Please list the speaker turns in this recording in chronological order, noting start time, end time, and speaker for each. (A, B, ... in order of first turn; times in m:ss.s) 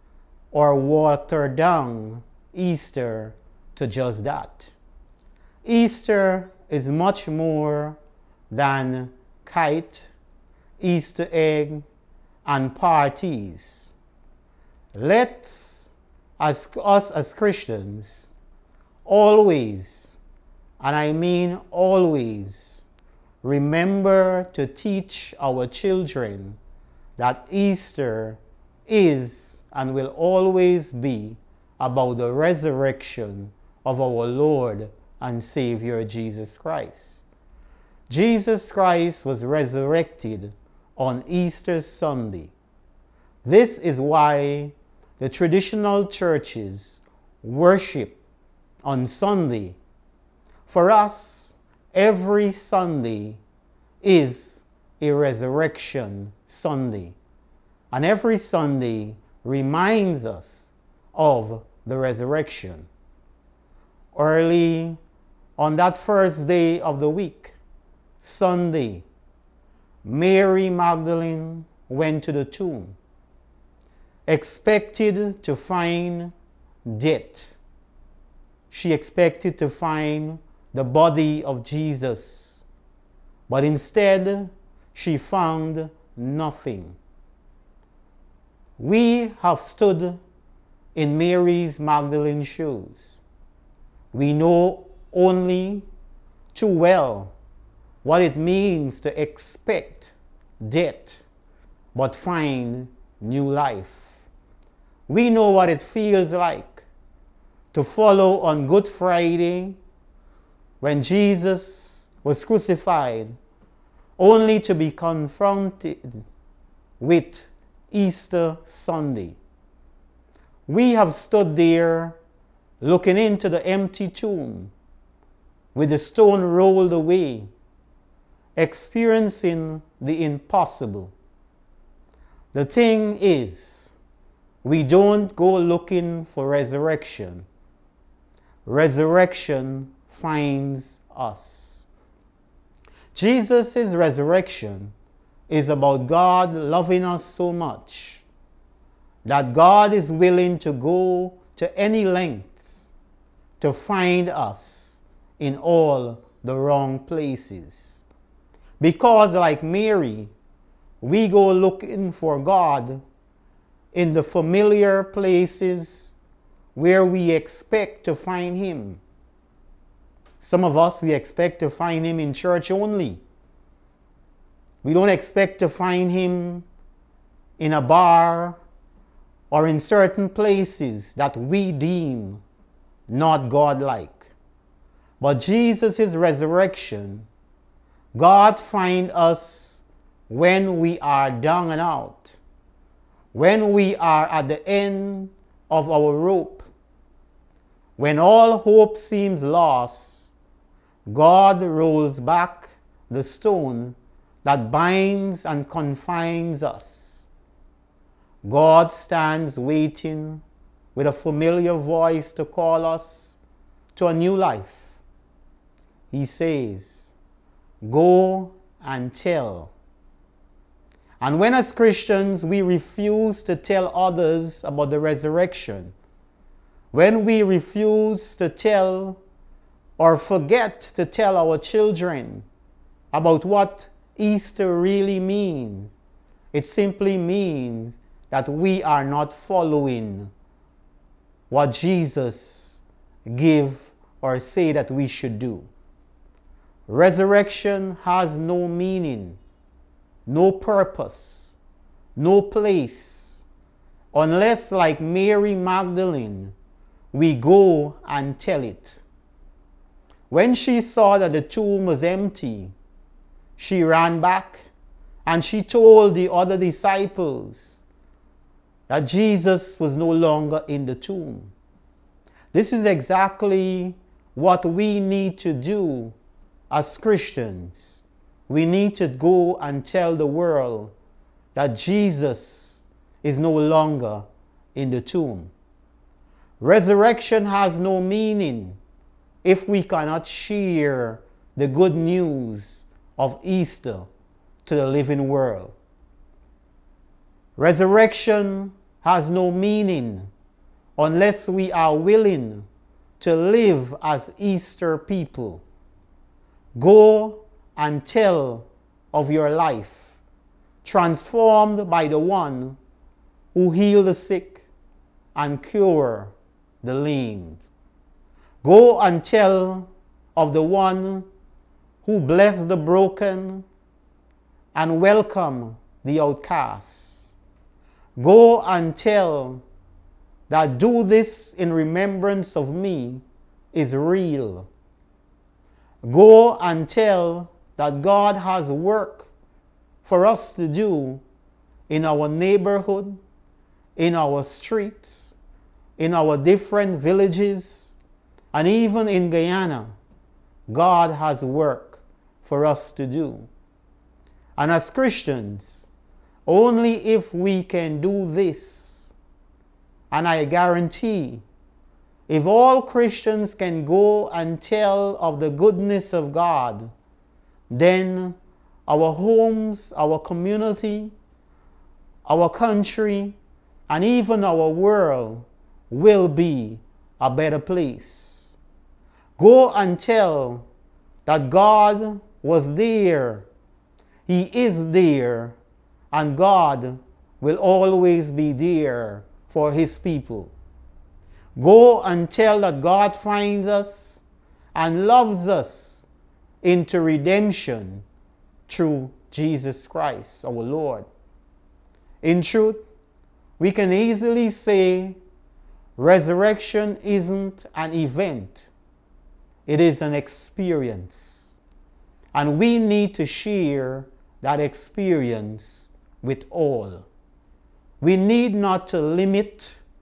0:00.5-0:04.8 A
0:05.6-0:08.0 A
0:08.5-0:10.1 A
0:10.8-0:11.8 A
0:12.4-0:13.9 A
0:14.9-0:18.3 A
0:19.1-0:20.2 A
0:20.8-0:22.8 A
0:23.4-0:26.6 A
0:27.2-0:37.2 A
0:38.1-0:42.5 A
0:43.4-0:48.2 A
0:48.8-0:49.8 A
0:50.7-0:53.4 A
0:54.0-0:57.2 A
0:57.9-1:02.9 A
1:04.1-1:05.0 A
1:05.6-1:07.6 A
1:08.2-1:09.1 A
1:10.0-1:13.0 A
1:14.3-1:16.3 A
1:16.9-1:17.6 A
1:18.7-1:22.6 A
1:23.5-1:27.0 A
1:28.8-1:30.2 A
1:30.9-1:33.2 A
1:34.1-1:35.9 A
1:36.5-1:37.3 A
1:38.0-1:41.3 A
1:41.9-1:44.3 A
1:45.1-1:46.9 A
1:47.7-1:49.8 A
1:50.8-1:53.4 A
1:54.2-1:56.2 A
1:57.0-1:59.4 A
2:00.7-2:02.2 A
2:02.8-2:04.7 A
2:05.8-2:07.5 A
2:08.6-2:11.1 A
2:12.5-2:14.0 A
2:14.6-2:17.4 A
2:18.6-2:21.9 A
2:23.1-2:24.9 A
2:25.5-2:28.2 A
2:29.2-2:32.9 A
2:33.6-2:38.0 A
2:38.8-2:40.3 A
2:41.0-2:43.0 A
2:43.9-2:46.1 A
2:46.8-2:49.0 A
2:50.4-2:53.2 A
2:54.8-2:56.7 A
2:57.6-2:58.6 A
2:59.5-3:02.4 A
3:03.1-3:04.3 A
3:05.2-3:07.3 A
3:08.1-3:12.4 A
3:13.3-3:16.7 A
3:18.0-3:20.3 A
3:21.1-3:27.3 A
3:28.4-3:30.4 A
3:30.9-3:33.4 A
3:33.9-3:35.0 A
3:36.1-3:37.1 A
3:37.8-3:39.7 A
3:41.2-3:45.9 A
3:46.9-3:49.2 A
3:50.0-3:52.4 A
3:53.1-3:55.9 A
3:56.5-4:00.3 A
4:01.5-4:05.7 A
4:06.9-4:09.4 A
4:10.2-4:11.6 A
4:12.2-4:13.4 A
4:14.1-4:16.6 A
4:17.1-4:19.0 A
4:20.3-4:22.7 A
4:23.6-4:24.7 A
4:25.2-4:27.8 A
4:28.9-4:31.5 A
4:32.5-4:36.2 A
4:36.7-4:40.9 A
4:41.6-4:45.5 A
4:46.6-4:48.8 A
4:49.4-4:54.1 A
4:54.6-4:55.8 A
4:57.6-5:00.3 A
5:01.0-5:02.7 A
5:03.2-5:05.6 A
5:06.8-5:10.2 A
5:10.8-5:12.8 A
5:13.5-5:14.7 A
5:15.3-5:17.6 A
5:18.6-5:21.3 A
5:22.0-5:23.7 A
5:24.7-5:27.3 A
5:28.2-5:29.6 A
5:30.5-5:34.7 A
5:36.0-5:39.3 A
5:40.0-5:41.2 A
5:41.9-5:43.2 A
5:44.0-5:45.4 A
5:46.0-5:48.0 A
5:48.5-5:50.0 A
5:50.7-5:53.5 A
5:54.6-5:55.9 A
5:56.4-5:59.1 A
6:00.1-6:01.4 A
6:02.3-6:06.9 A
6:07.7-6:08.4 A
6:08.9-6:11.1 A
6:12.3-6:13.4 A
6:13.9-6:18.6 A
6:19.4-6:20.7 A
6:21.3-6:23.5 A
6:24.3-6:25.6 A
6:26.1-6:30.5 A
6:31.6-6:34.2 A
6:34.7-6:36.1 A
6:36.6-6:38.0 A
6:38.7-6:41.1 A
6:42.2-6:42.8 A
6:43.6-6:45.2 A
6:46.0-6:48.7 A
6:49.7-6:51.6 A
6:52.3-6:57.1 A
6:58.0-6:59.8 A